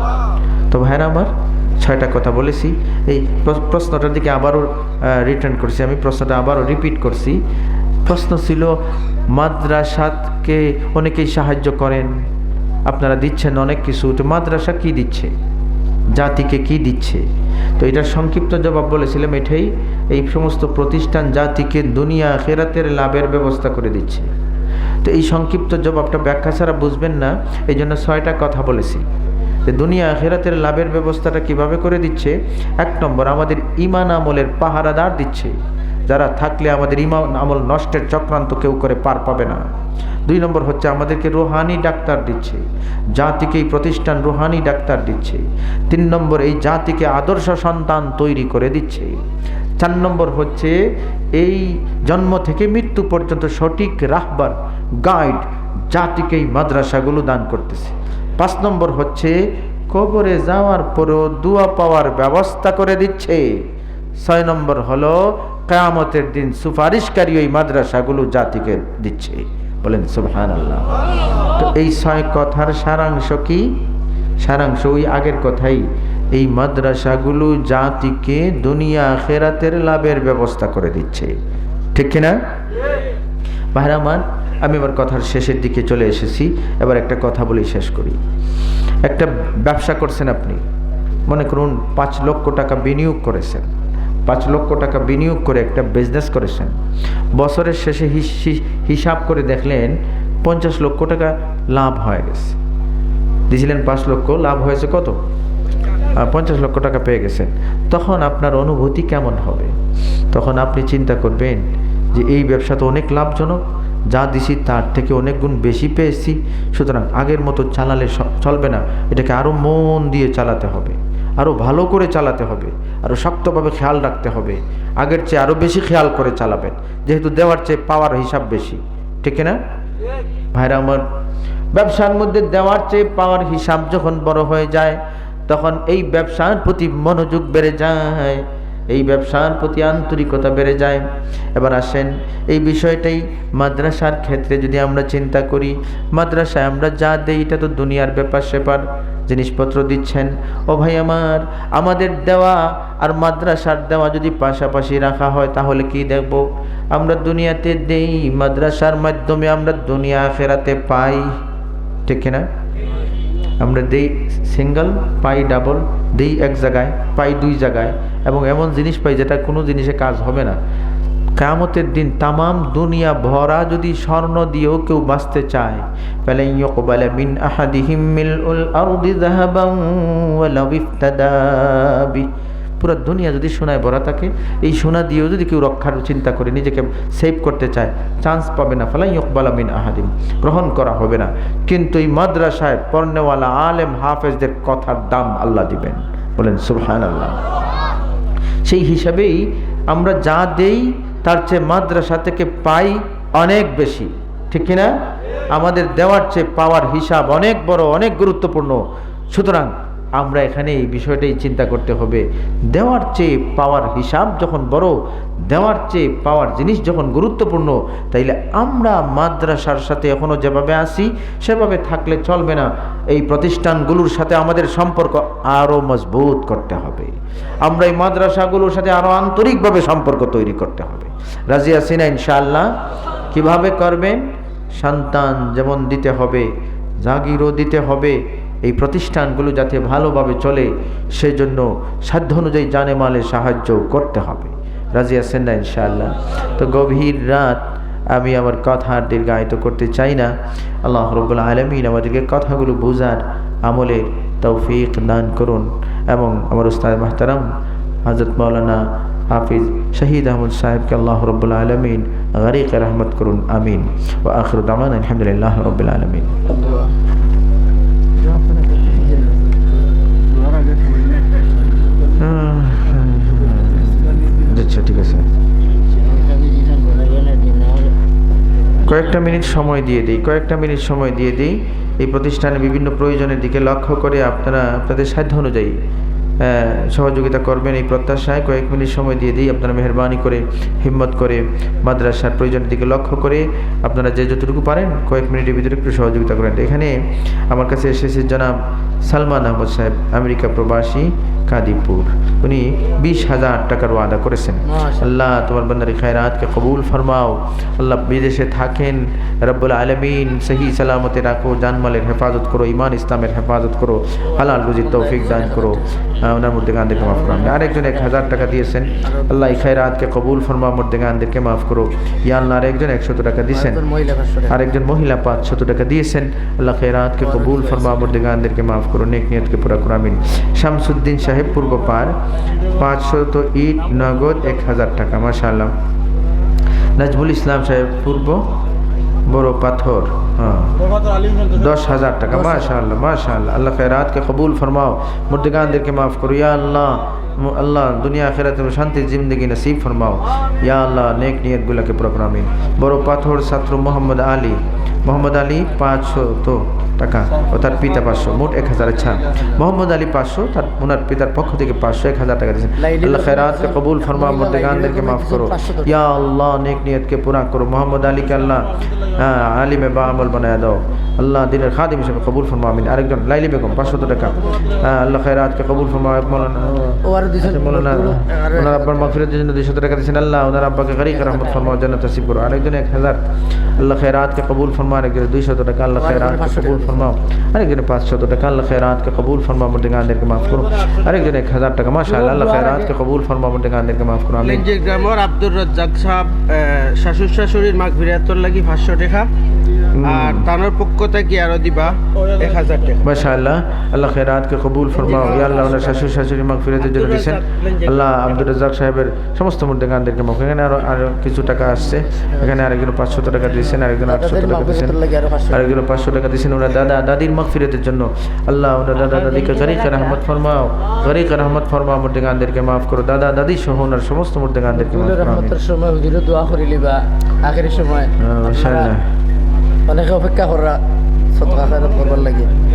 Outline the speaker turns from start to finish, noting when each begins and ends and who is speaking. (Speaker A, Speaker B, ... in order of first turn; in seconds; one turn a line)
Speaker A: 0.7-7.4
Speaker A: 8.1-12.3
Speaker A: 12.9-15.3
Speaker A: 16.1-17.2
Speaker A: 17.8-24.3
Speaker A: 25.0-29.1
Speaker A: 29.7-35.6
Speaker A: 36.1-39.7
Speaker A: 40.3-49.2
Speaker A: 49.8-59.4
Speaker A: 59.9-63.7
Speaker A: 64.2-71.0
Speaker A: 71.5-73.7
Speaker A: 74.4-81.3
Speaker A: 81.9-82.3
Speaker A: 83.8-88.2
Speaker A: 89.0-90.6
Speaker A: 91.3-93.7
Speaker A: 94.3-96.8
Speaker A: 97.3-102.6
Speaker A: 103.5-105.2
Speaker A: 106.2-109.8
Speaker A: 110.3-129.6
Speaker A: 130.5-131.0
Speaker A: 131.7-161.4
Speaker A: 162.1-162.5
Speaker A: 163.6-170.6
Speaker A: 171.4-182.3
Speaker A: 182.8-197.4
Speaker A: 198.6-204.9
Speaker A: 205.5-232.7
Speaker A: 233.3-236.5
Speaker A: 237.0-250.3
Speaker A: 250.8-257.5
Speaker A: 258.1-266.4
Speaker B: 266.5-266.9
Speaker B: 268.8-269.4
Speaker A: 272.2-275.3
Speaker B: 275.9-277.9
Speaker A: 278.8-285.8
Speaker A: 286.4-297.0
Speaker A: 297.5-323.8
Speaker B: 304.7-305.1
Speaker B: 314.8-315.9
Speaker B: 317.0-318.2
Speaker B: 319.0-319.4
Speaker B: 323.5-324.6
Speaker A: 324.5-335.7
Speaker A: 337.0-338.5
Speaker A: 339.3-340.8
Speaker A: 341.4-394.6
Speaker B: 342.4-342.7
Speaker B: 362.8-365.9
Speaker B: 377.0-379.2
Speaker B: 381.1-381.8
Speaker B: 385.9-387.1
Speaker B: 392.0-392.9
Speaker C: 394.4-399.3
Speaker A: 399.9-400.5
Speaker C: 400.1-403.2
Speaker A: 403.0-425.6
Speaker C: 405.0-405.8
Speaker B: 405.3-405.9
Speaker C: 406.8-407.9
Speaker B: 411.9-412.6
Speaker B: 413.8-415.6
Speaker B: 424.7-428.9
Speaker A: 428.2-429.1
Speaker B: 429.9-430.8
Speaker B: 431.3-432.5